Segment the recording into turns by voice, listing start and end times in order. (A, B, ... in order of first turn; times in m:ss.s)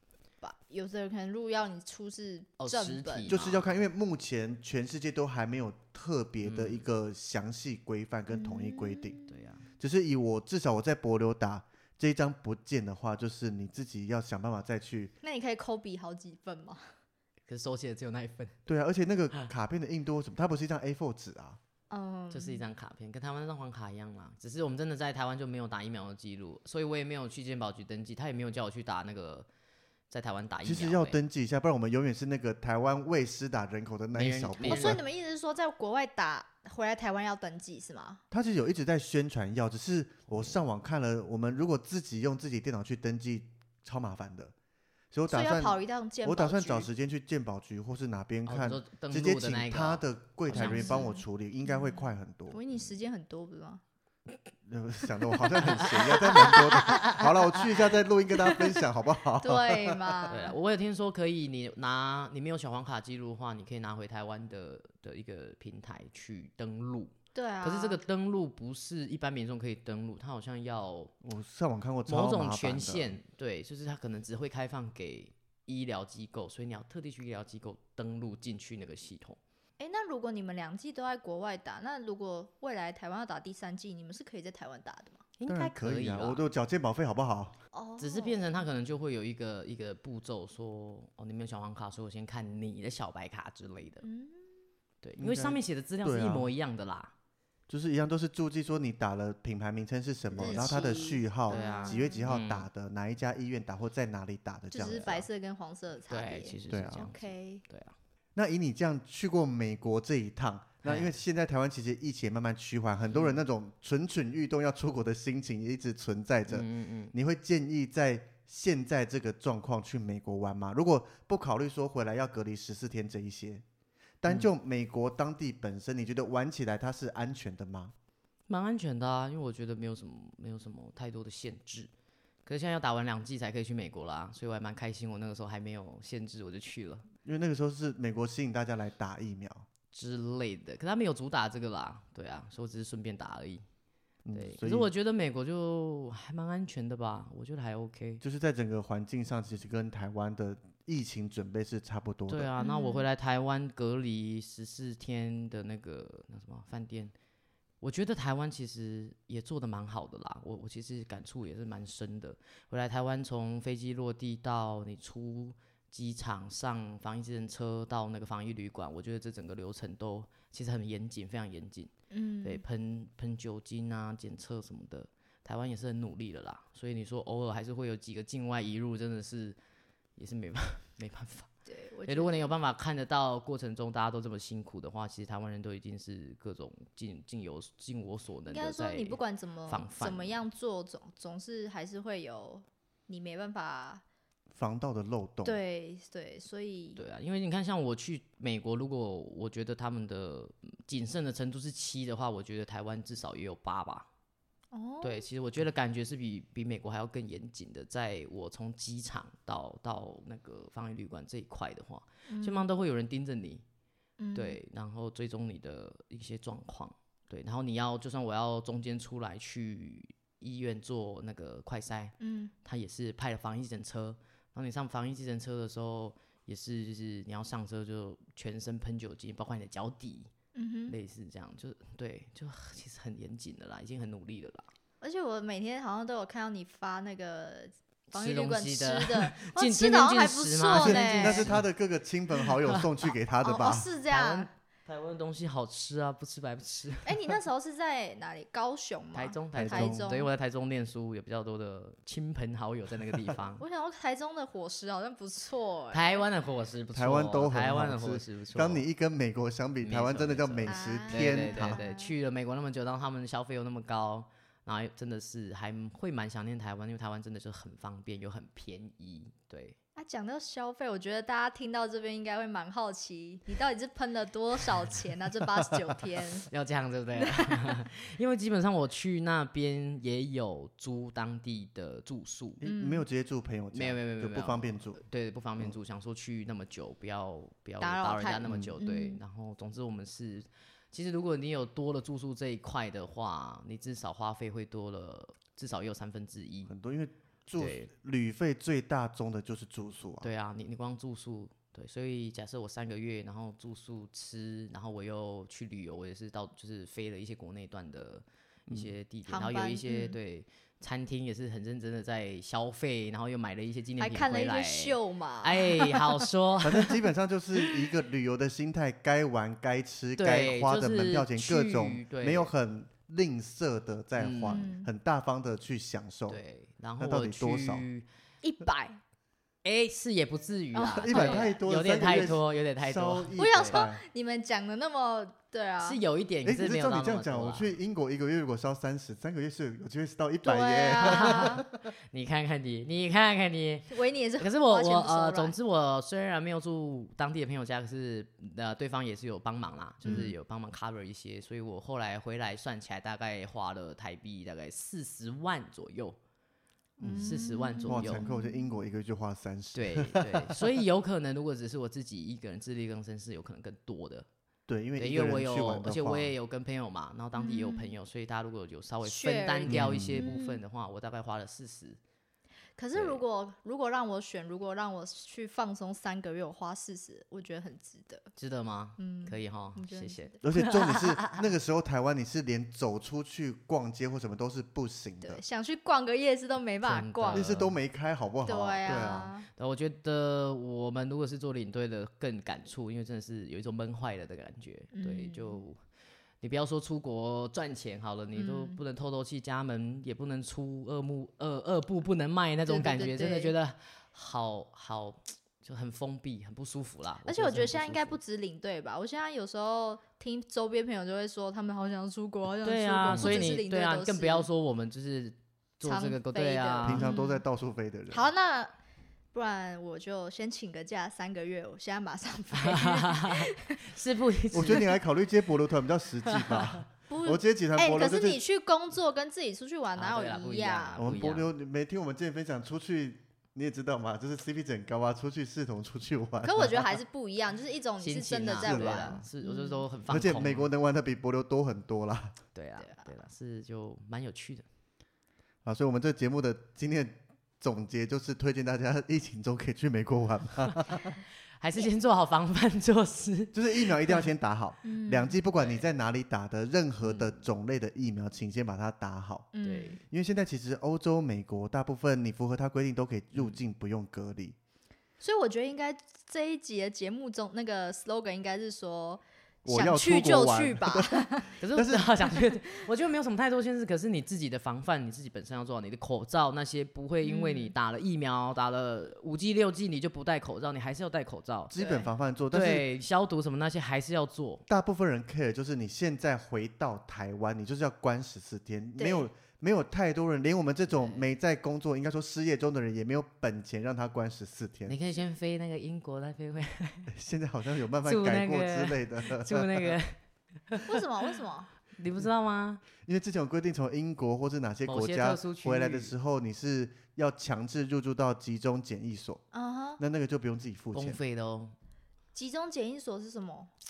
0:00.4-0:03.3 A
0:02.6-0:03.8 B
0:03.3-0:09.2 C
0:06.4-0:06.8 B
0:08.3-0:09.4 A
0:09.3-0:09.6 B
0:09.8-0:15.1 C
0:15.2-0:16.8 A
0:17.5-0:18.6 B
0:18.7-0:21.6 C
0:21.9-0:22.6 A
0:22.3-0:29.5 B
0:30.1-0:31.2 B
0:30.6-0:35.0 C
0:34.1-0:35.0 B
0:34.6-0:38.2 A
0:38.3-0:44.5 C
0:45.1-0:52.6 C
0:45.3-0:46.9 A
0:48.4-0:51.1 B
0:50.5-0:53.8 A
0:54.6-1:00.3 C
0:55.6-0:57.6 B
0:56.1-0:57.1 A
0:58.4-0:58.8 A
0:59.4-1:00.6 A
1:00.3-1:11.1 B
1:07.3-1:08.0 A
1:11.2-1:13.1 C
1:12.1-1:19.4 B
1:19.8-1:25.3 A
1:25.4-1:26.4 B
1:25.5-1:27.6 C
1:27.7-1:28.5 A
1:28.0-1:34.0 B
1:34.0-1:34.5 A
1:35.0-1:37.1 B
1:35.2-1:36.5 C
1:37.7-1:45.3 C
1:40.3-1:40.8 B
1:40.4-1:42.3 A
1:41.5-1:42.7 B
1:44.7-1:47.6 A
1:46.1-1:48.0 B
1:46.7-1:47.1 C
1:48.3-2:03.6 C
1:50.8-1:51.2 B
1:53.1-1:53.4 B
1:56.5-1:57.1 B
2:04.2-2:07.9 C
2:08.5-2:11.9 B
2:12.4-2:17.1 B
2:17.2-2:19.6 C
2:19.9-2:23.6 B
2:24.2-2:24.9 C
2:24.3-2:28.2 B
2:28.2-2:32.5 C
2:32.3-2:37.1 B
2:32.6-2:33.0 A
2:37.8-2:51.9 B
2:52.1-2:52.6 A
2:52.4-2:59.6 B
3:00.2-3:01.5 B
3:01.6-3:02.5 A
3:02.0-3:10.4 B
3:08.5-3:14.0 A
3:14.6-3:15.6 C
3:15.4-3:17.0 A
3:17.0-3:24.1 B
3:24.7-3:25.3 A
3:25.0-3:33.6 B
3:32.3-3:32.7 A
3:34.2-3:34.6 A
3:34.3-3:50.3 B
3:42.2-3:42.5 A
3:50.6-3:51.0 A
3:50.9-3:54.7 B
3:55.0-4:01.5 A
3:58.1-4:01.6 B
4:00.7-4:03.9 C
4:03.4-4:04.5 A
4:04.1-4:07.3 B
4:07.0-4:10.3 A
4:09.1-4:13.6 B
4:09.5-4:10.1 C
4:13.6-4:16.2 A
4:15.9-4:18.9 B
4:17.0-4:21.8 C
4:19.8-4:29.8 B
4:20.6-4:22.1 A
4:30.0-4:36.5 A
4:36.4-4:42.6 B
4:37.2-4:37.7 A
4:42.6-4:45.0 C
4:42.6-4:43.0 A
4:43.7-4:56.7 B
4:47.8-4:49.2 A
4:48.5-4:48.7 C
4:56.7-5:00.3 C
4:57.6-4:57.9 B
5:00.2-5:16.9 B
5:09.3-5:10.2 A
5:14.0-5:16.0 A
5:16.6-5:26.4 C
5:20.2-5:22.5 B
5:24.2-5:24.7 B
5:24.5-5:24.9 A
5:26.3-5:28.0 B
5:27.0-5:27.8 C
5:28.4-5:29.0 A
5:29.6-5:33.8 B
5:30.7-5:31.5 A
5:31.0-5:34.0 C
5:33.4-5:36.0 A
5:35.8-5:37.7 B
5:36.4-5:41.8 C
5:40.4-5:41.6 A
5:41.0-5:56.2 B
5:43.9-5:45.6 A
5:50.0-5:50.3 A
5:57.0-5:58.6 A
5:57.0-6:00.7 C
5:57.1-5:58.2 B
5:59.7-6:04.3 B
6:04.7-6:06.3 C
6:05.0-6:12.0 B
6:07.4-6:08.0 A
6:09.0-6:10.6 A
6:09.7-6:10.3 C
6:12.8-6:18.3 A
6:12.9-6:13.2 B
6:18.4-6:21.4 B
6:19.0-6:20.3 A
6:20.4-6:25.4 C
6:25.2-6:27.5 A
6:26.8-6:27.8 B
6:27.3-6:29.3 C
6:28.4-6:29.5 A
6:28.9-6:35.8 B
6:34.9-6:35.6 A
6:36.4-6:48.2 B
6:38.3-6:38.8 A
6:42.7-6:43.5 A
6:47.3-6:54.5 A
6:52.6-6:57.1 B
6:53.1-6:53.5 C
6:55.8-6:57.4 A
6:56.8-6:58.3 C
6:58.1-6:58.7 A
6:59.3-7:03.8 A
7:02.5-7:04.9 B
7:04.5-7:08.4 C
7:06.3-7:06.8 B
7:07.1-7:11.1 A
7:10.0-7:11.5 B
7:11.0-7:16.9 C
7:16.4-7:19.8 A
7:18.0-7:20.7 B
7:18.6-7:19.3 C
7:20.1-7:22.4 C
7:22.6-7:24.6 B
7:22.8-7:23.1 A
7:25.6-7:31.2 C
7:31.6-7:33.6 B
7:33.5-7:39.5 C
7:34.8-7:35.4 A
7:37.0-7:37.4 B
7:39.5-7:40.0 A
7:39.6-7:40.0 B
7:40.1-7:44.6 C
7:43.3-7:43.6 B
7:45.2-7:51.5 A
7:49.6-7:52.3 C
7:51.6-8:01.7 B
7:57.2-7:57.7 A
8:01.7-8:02.9 C
8:01.8-8:02.1 A
8:02.5-8:04.6 B
8:04.7-8:15.0 C
8:09.0-8:09.3 A
8:10.9-8:11.3 B
8:14.9-8:17.1 B
8:17.1-8:20.0 C
8:18.0-8:21.4 B
8:20.9-8:21.7 A
8:21.9-8:22.8 B
8:23.0-8:29.4 C
8:24.9-8:26.1 B
8:29.5-8:30.0 A
8:30.0-8:31.2 C
8:30.9-8:31.7 B
8:32.3-8:33.7 A